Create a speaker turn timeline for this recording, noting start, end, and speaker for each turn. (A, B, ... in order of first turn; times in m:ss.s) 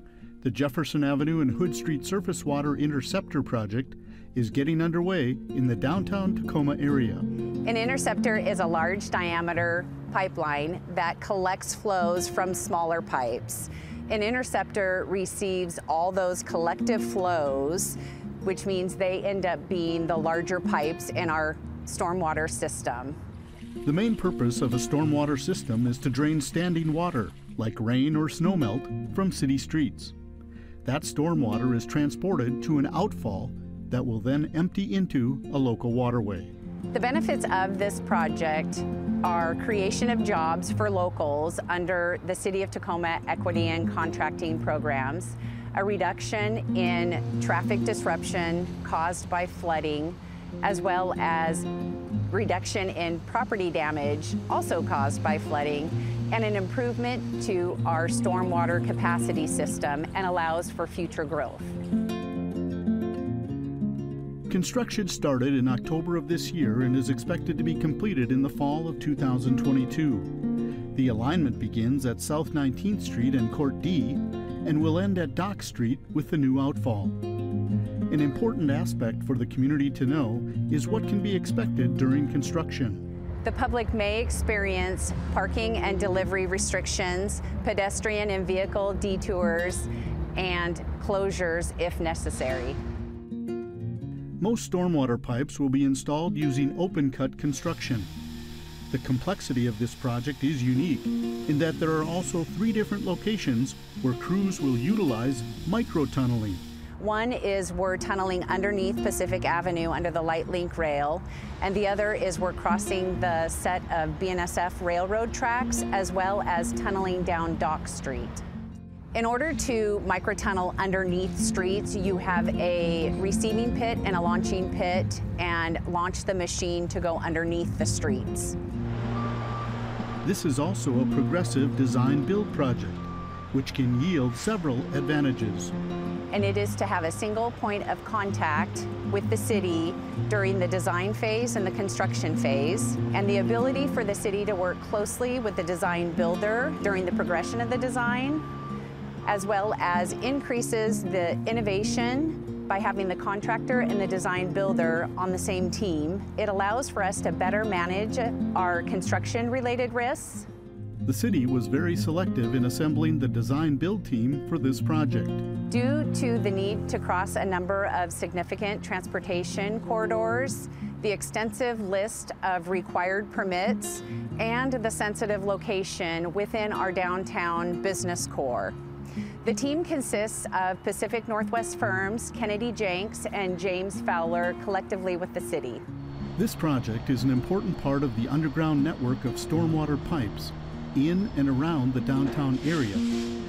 0:00.4-0:07.3 A
0:07.6-0:23.2 B
0:23.8-0:30.1 A
0:30.8-0:36.5 A
0:36.9-0:51.7 B
0:52.3-1:01.8 B
1:04.5-1:10.4 A
1:10.9-1:17.2 A
1:18.1-1:23.0 A
1:23.4-1:32.8 B
1:34.4-1:38.1 A
1:38.9-1:46.6 A
1:47.0-1:58.4 B
1:59.1-2:08.6 B
2:10.2-2:15.7 A
2:16.3-2:28.4 B
2:29.2-2:40.5 B
2:41.0-2:45.4 A
2:45.7-2:58.8 B
2:59.4-3:05.8 B
3:06.4-3:13.1 A